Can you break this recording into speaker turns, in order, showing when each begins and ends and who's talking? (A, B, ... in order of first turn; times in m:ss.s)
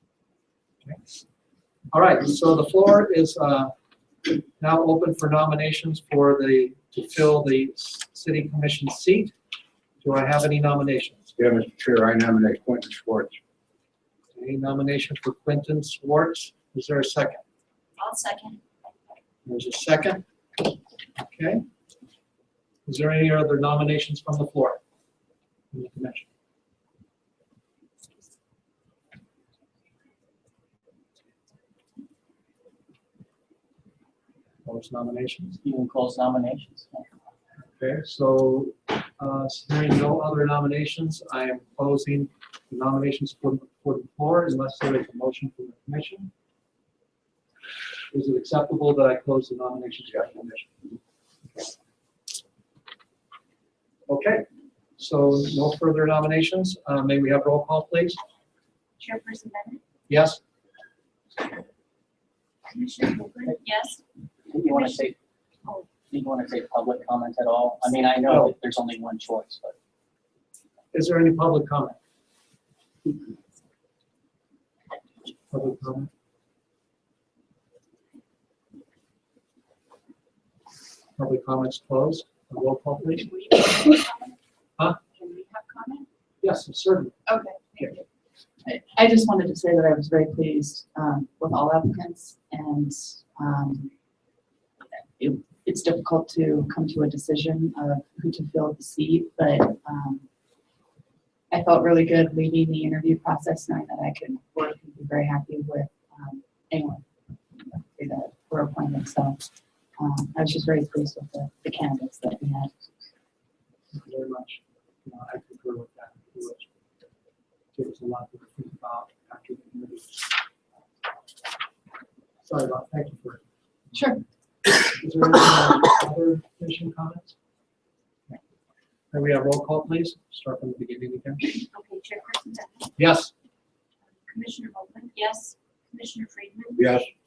0:01.9-0:03.7 A
0:04.3-0:09.3 A
0:10.0-0:11.3 A
0:11.4-0:13.4 B
0:14.3-0:17.4 A
0:18.0-0:18.6 C
0:19.4-0:20.2 A
0:21.2-0:21.6 A
0:22.8-0:24.8 A
0:25.7-0:26.3 A
0:34.6-0:35.6 A
0:35.6-0:37.1 D
0:37.6-0:46.3 A
0:48.1-0:50.9 A
0:54.1-0:54.4 A
0:55.0-0:58.2 A
0:59.0-0:59.8 C
1:00.1-1:00.4 A
1:02.7-1:04.0 C
1:04.5-1:05.2 D
1:04.6-1:05.0 C
1:06.0-1:09.7 D
1:08.3-1:08.5 A
1:10.9-1:12.0 A
1:15.5-1:16.1 A
1:21.2-1:23.3 A
1:23.2-1:24.3 C
1:25.2-1:25.8 C
1:25.3-1:26.0 E
1:26.4-1:27.2 A
1:27.3-1:28.0 E
1:28.6-1:33.9 E
1:35.2-1:40.2 E
1:41.5-1:47.0 E
1:47.6-1:49.4 E
1:50.0-1:52.7 E
1:53.9-1:56.7 A
1:57.7-2:00.2 A
2:02.4-2:03.4 A
2:03.9-2:04.2 E
2:04.9-2:07.3 A
2:09.1-2:11.5 A
2:11.5-2:12.9 C
2:13.0-2:13.3 A
2:14.3-2:17.0 C
2:16.8-2:17.1 B